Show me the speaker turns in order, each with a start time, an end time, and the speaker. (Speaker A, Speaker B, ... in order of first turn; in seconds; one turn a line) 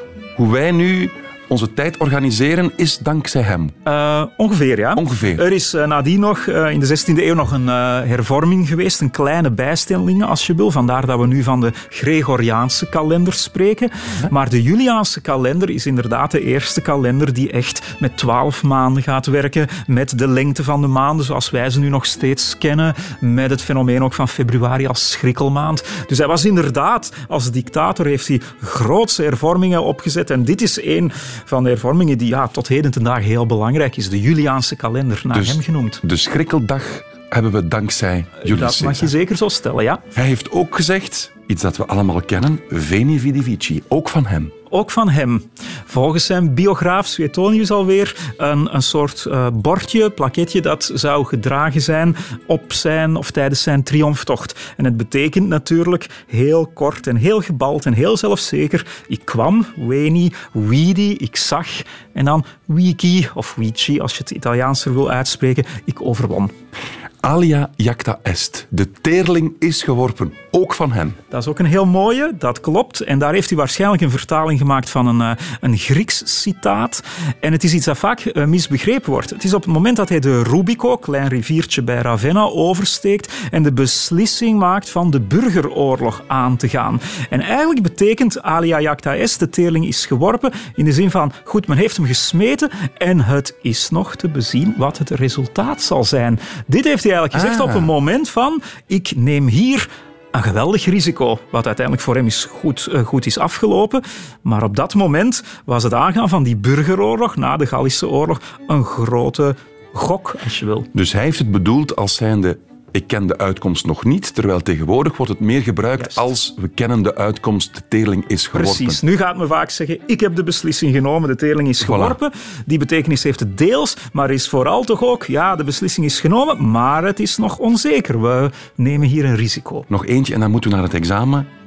Speaker A: 0.3-3.8
Speaker B: 3.8-36.0
Speaker A: 5.0-5.4
Speaker A: 35.3-39.1
Speaker B: 38.4-40.0
Speaker A: 40.1-44.5
Speaker B: 44.7-66.5
Speaker A: 67.2-71.2
Speaker B: 71.3-110.9
Speaker A: 97.3-97.9
Speaker A: 110.9-119.0
Speaker B: 118.5-129.9
Speaker A: 121.8-122.2
Speaker A: 129.9-131.5